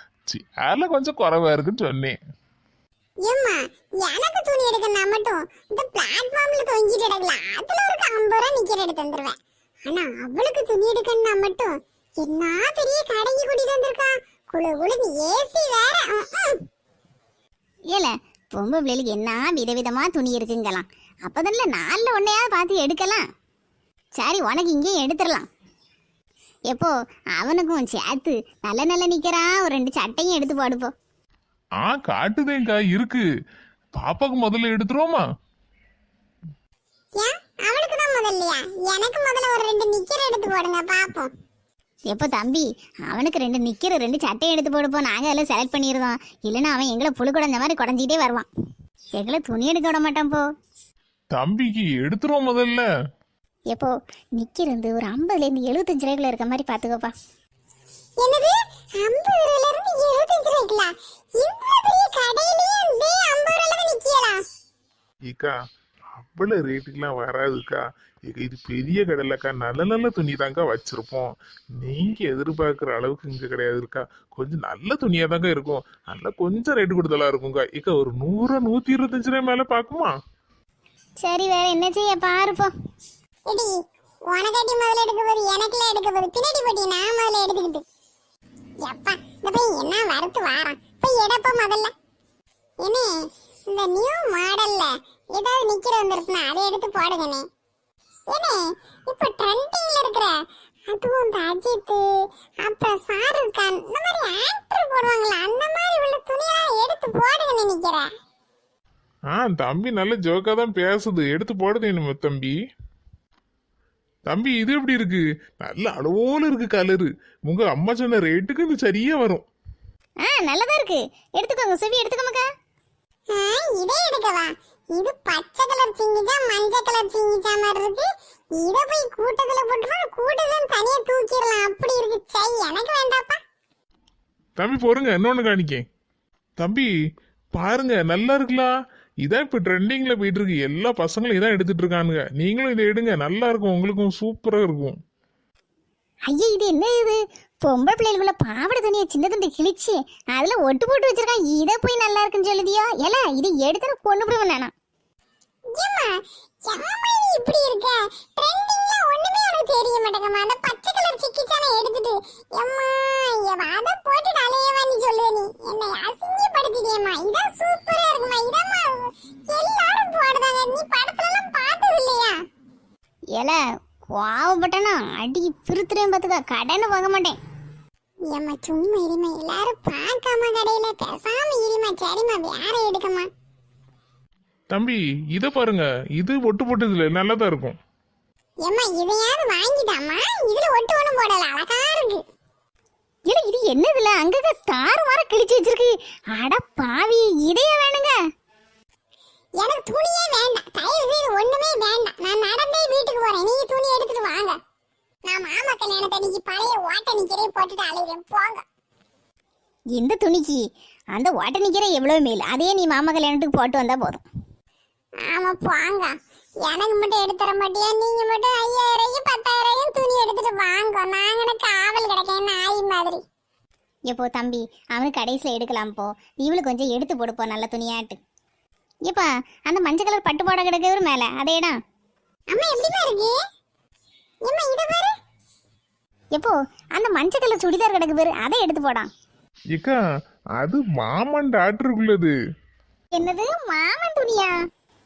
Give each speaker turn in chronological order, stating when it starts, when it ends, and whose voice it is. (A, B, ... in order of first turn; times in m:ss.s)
0:00.3-0:02.2 A
0:03.2-0:09.4 B
0:09.9-0:16.6 B
0:17.9-0:23.2 C
0:24.2-0:25.5 C
0:26.7-0:30.9 C
0:31.8-0:33.2 A
0:34.0-0:35.2 A
0:37.2-0:41.3 B
0:42.1-0:48.5 C
0:49.2-0:50.4 C
0:51.3-0:52.8 A
0:53.7-0:57.1 C
0:58.2-1:04.4 B
1:05.3-1:05.5 A
1:06.2-1:20.1 A
1:21.2-1:22.7 C
1:24.3-1:27.8 B
1:28.8-1:31.9 B
1:32.8-1:33.1 B
1:33.7-1:37.4 B
1:38.3-1:40.3 B
1:40.9-1:42.0 B
1:42.6-1:48.1 B
1:49.4-1:52.6 A
1:54.3-1:59.4 A
2:00.2-2:02.4 C
2:03.3-2:13.4 B
2:14.6-2:15.8 A
2:16.6-2:16.9 A
2:17.5-2:18.7 A
2:19.2-2:25.0 A
2:26.3-2:34.7 C
2:35.8-2:36.1 B
2:36.6-2:52.3 B
2:54.2-2:57.4 C
2:58.3-3:03.3 B
3:04.7-3:07.8 A
3:08.6-3:12.2 B
3:13.3-3:18.1 C
3:19.6-3:24.6 B
3:25.3-3:28.6 B
3:29.9-3:30.6 C
3:31.2-3:34.2 C
3:35.3-3:36.1 B
3:36.6-3:43.2 B
3:44.1-3:48.2 C
3:49.1-3:51.8 C
3:52.5-3:53.4 B
3:54.5-3:55.1 B
3:56.4-3:59.1 C
4:00.6-4:02.3 A
4:03.2-4:04.6 C